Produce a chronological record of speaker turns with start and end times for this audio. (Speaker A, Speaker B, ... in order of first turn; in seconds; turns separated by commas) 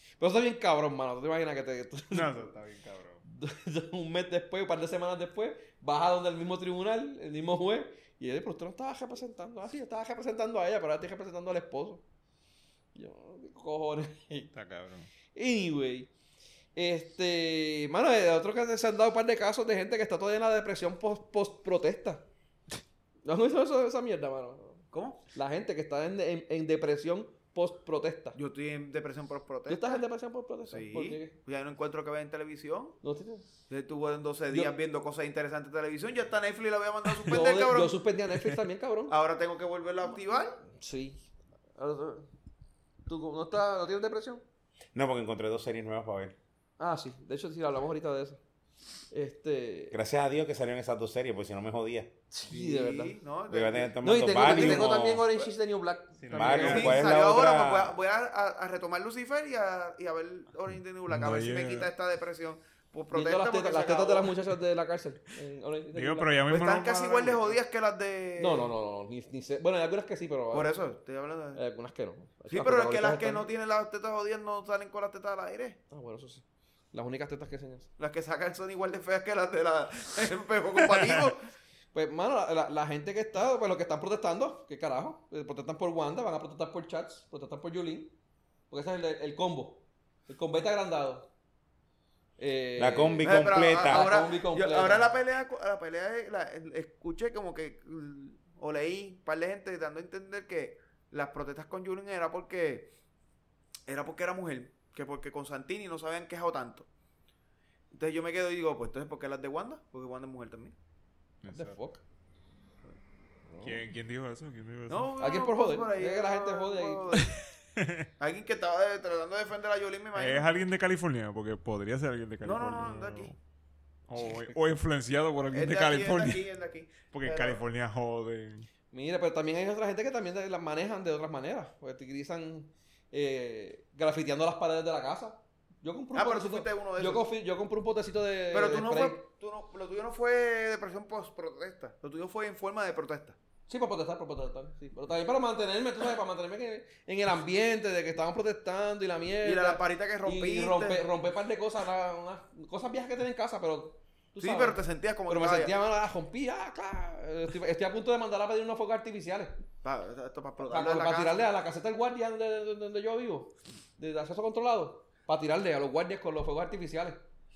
Speaker A: 0.2-2.4, Speaker B: 2.1-3.2, Speaker A: 3.2-12.0, Speaker A: 12.9-14.5, Speaker B: 14.5-15.1, Speaker A: 15.3-16.1, Speaker A: 16.7-22.2, Speaker A: 23.2-28.4, Speaker C: 24.9-25.2, Speaker C: 28.3-30.0, Speaker A: 29.7-31.4, Speaker C: 30.7-33.0, Speaker A: 33.0-33.5, Speaker C: 33.7-38.0, Speaker A: 37.2-39.1, Speaker C: 39.1-40.6, Speaker A: 40.7-42.3, Speaker A: 43.0-44.4, Speaker D: 44.9-46.4, Speaker A: 46.8-48.4, Speaker A: 49.1-50.0, Speaker D: 49.9-52.1, Speaker A: 52.3-53.2, Speaker C: 52.5-55.0, Speaker D: 53.5-55.3, Speaker A: 54.0-57.0, Speaker B: 56.2-57.0, Speaker D: 56.3-57.9, Speaker C: 56.6-64.3, Speaker B: 61.1-61.9, Speaker A: 63.1-66.4, Speaker B: 65.9-67.6, Speaker C: 66.5-68.7, Speaker A: 68.4-70.7, Speaker C: 70.5-71.6, Speaker A: 71.5-73.5, Speaker C: 72.5-75.8, Speaker A: 75.9-77.9, Speaker C: 78.0-81.4, Speaker A: 81.9-88.1, Speaker A: 88.7-91.3, Speaker A: 92.4-95.1, Speaker D: 92.8-94.1, Speaker C: 93.2-102.9, Speaker C: 103.9-106.9, Speaker C: 107.9-110.7, Speaker B: 111.4-111.8, Speaker A: 111.5-112.0, Speaker A: 113.5-113.8, Speaker B: 113.6-115.1, Speaker C: 114.9-117.4, Speaker A: 115.2-117.1, Speaker B: 117.8-118.0, Speaker C: 118.2-120.5, Speaker B: 120.1-123.4, Speaker C: 122.4-123.3, Speaker B: 124.1-126.4, Speaker C: 125.5-127.6, Speaker B: 127.1-128.7, Speaker A: 128.9-139.2, Speaker C: 136.1-137.2, Speaker C: 138.5-143.3, Speaker A: 143.7-159.6, Speaker C: 149.4-151.0, Speaker C: 154.4-155.7, Speaker C: 159.8-161.4, Speaker A: 160.7-167.2